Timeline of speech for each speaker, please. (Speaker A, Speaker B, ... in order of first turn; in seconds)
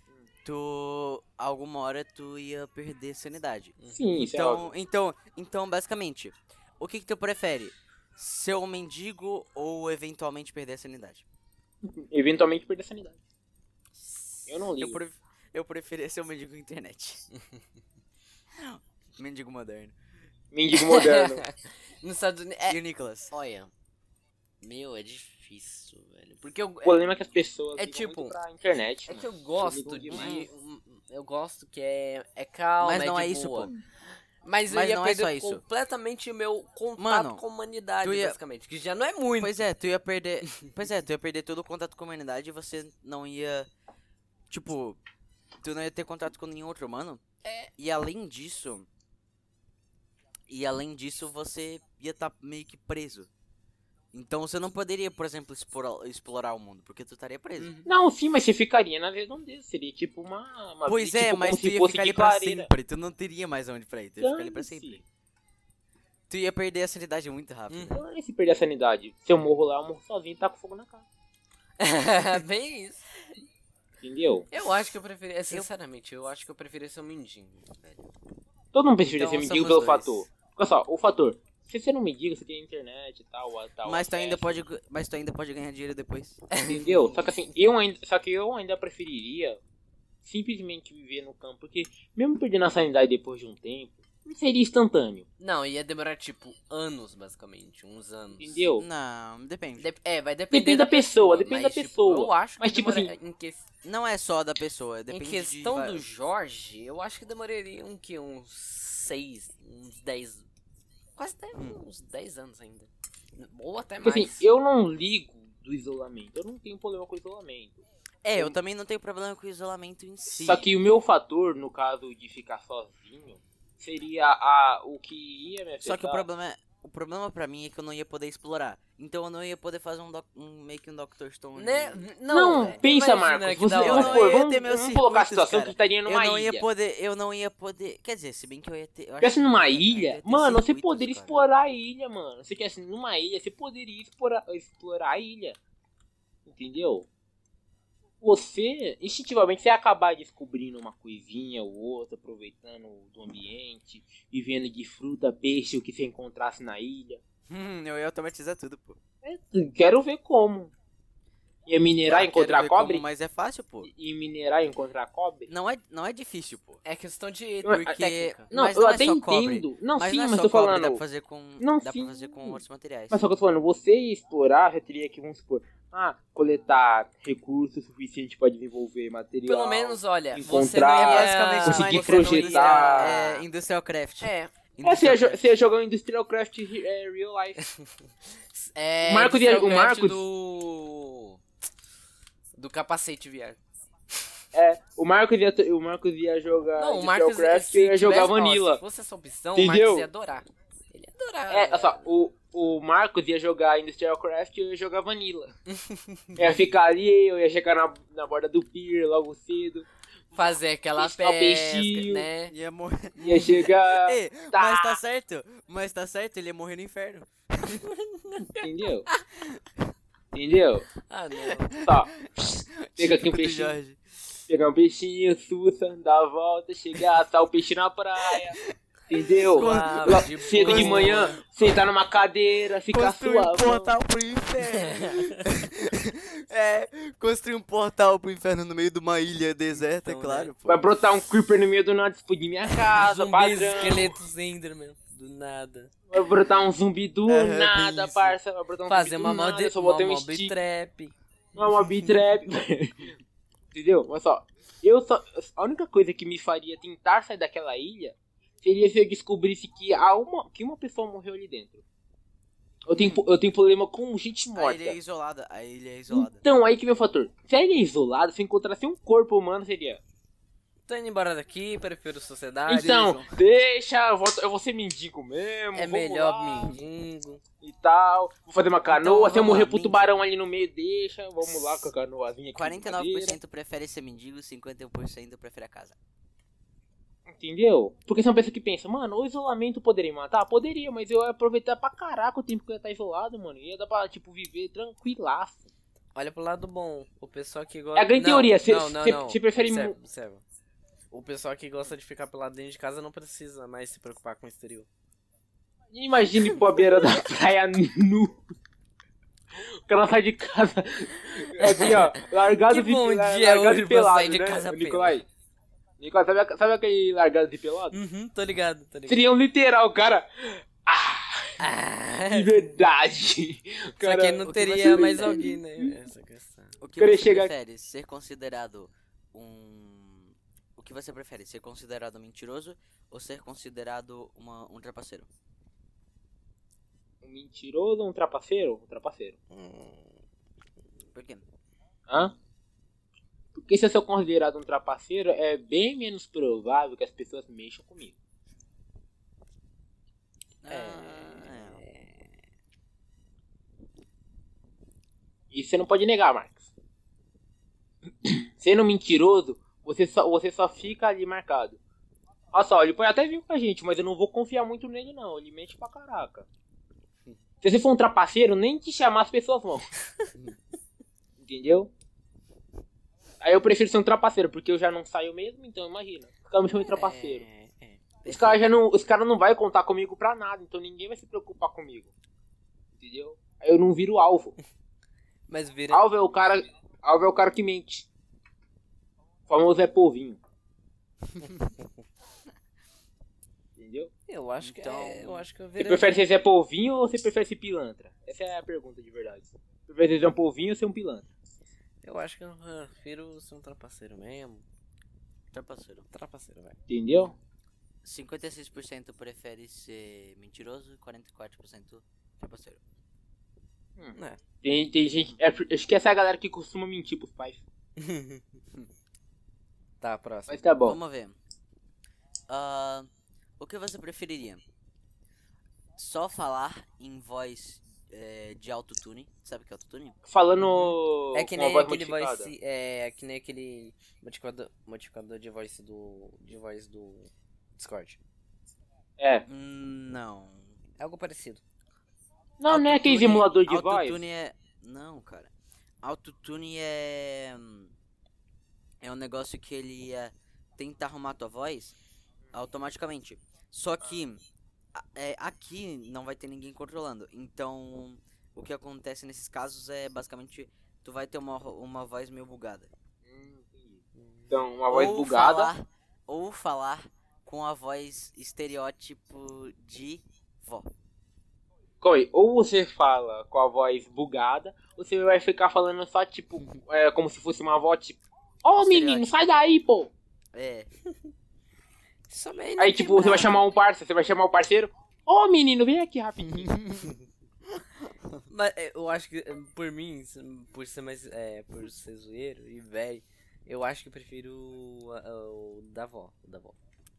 Speaker A: 0.4-11.2, 14.8-17.2, 18.6-19.9, 22.7-23.3, 30.1-30.5, 32.8-33.7, 34.7-35.6, 37.0-37.4, 38.0-38.4, 39.4-43.7, 44.5-45.0, 45.6-47.2, 47.8-48.9, 50.5-53.3, 54.1-57.7, 60.9-65.0, 66.3-68.0, 79.1-80.2, 83.8-86.4, 98.8-99.9, 103.8-106.0, 118.2-120.7, 125.8-132.1, 133.8-141.4, 157.5-159.0, 162.1-163.9, 165.5-166.8, 167.7-173.2, 180.9-185.4, 212.5-217.8, 222.4-224.0, 228.3-228.7, 229.2-231.7, 232.9-240.8, 247.3-248.4, 262.9-263.2, 264.5-266.4, 272.7-273.4, 278.9-280.1, 282.5-285.9, 324.4-325.4, 326.8-335.3, 341.1-341.4, 350.6-351.8, 378.2-378.6, 394.6-395.5, 405.5-406.0, 408.0-412.8, 420.8-421.4, 422.5-423.1, 423.6-424.6, 426.0-430.2, 439.5-440.8, 442.7-445.5, 446.0-447.9, 449.0-451.9, 452.5-454.4, 454.9-462.9, 464.9-470.9, 478.8-479.3, 480.5-480.9
Speaker B: 3.9-4.7, 11.8-13.2, 14.5-15.0, 20.5-21.4, 26.8-30.4, 57.9-62.7, 64.2-65.0, 67.9-71.0, 74.0-74.5, 78.7-84.6, 86.6-89.6, 90.2-95.2, 98.4-98.8, 100.5-103.1, 114.0-117.8, 120.4-126.2, 132.3-136.7, 139.2-145.6, 146.4-147.1, 148.2-157.2, 159.2-160.7, 161.7-163.0, 163.8-165.5, 167.6-168.0, 168.5-171.0, 171.6-183.2, 184.8-187.6, 189.0-190.2, 194.5-198.8, 199.5-200.1, 201.5-205.5, 206.4-209.8, 210.9-212.3, 213.2-215.0, 218.5-219.1, 220.3-220.9, 221.8-222.3, 223.0-223.8, 224.5-228.6, 229.1-233.9, 240.7-244.2, 246.1-250.5, 251.6-253.1, 253.7-261.8, 262.9-265.0, 266.1-270.0, 272.7-276.8, 277.6-283.4, 287.3-295.6, 297.9-299.9, 305.9-308.4, 309.6-315.2, 316.0-318.0, 319.1-321.6, 322.3-326.0, 327.0-327.5, 337.2-339.4, 342.1-342.3, 343.5-348.1, 355.5-356.7, 358.2-361.8, 362.5-366.5, 367.6-369.9, 371.4-371.9, 373.4-377.4, 378.2-382.1, 383.0-384.6, 385.9-388.1, 389.5-390.4, 393.8-394.1, 395.8-401.3, 406.9-407.3, 414.0-417.6, 420.5-421.0, 430.2-432.5, 439.2-439.4, 442.6-444.2, 463.2-465.7, 472.0-480.1, 482.8-486.8
Speaker C: 20.7-23.7, 24.6-27.1, 27.8-28.4, 29.1-33.7, 34.4-39.6, 47.4-47.7, 57.6-57.9, 67.7-68.0, 71.8-73.3, 74.5-78.1, 86.5-87.2, 95.4-98.7, 99.8-103.6, 105.1-110.4, 111.2-114.5, 131.6-134.3, 166.8-168.5, 179.4-183.4, 184.2-184.5, 188.5-191.4, 192.6-193.6, 196.8-202.0, 205.7-206.4, 210.3-212.5, 217.8-218.4, 221.1-221.8, 229.4-231.4, 234.7-235.4, 239.8-240.5, 242.9-245.9, 248.8-251.1, 270.9-273.1, 275.7-277.4, 296.1-300.4, 301.1-304.9, 311.6-315.2, 317.9-319.2, 321.6-322.7, 324.0-326.8, 339.5-340.1, 350.7-352.3, 376.9-378.0, 385.5-386.0, 394.3-396.1, 402.0-404.6, 406.1-406.8, 418.0-418.4, 420.0-420.6, 431.3-438.2, 441.0-441.6, 464.1-464.6, 482.3-483.6, 488.5-496.8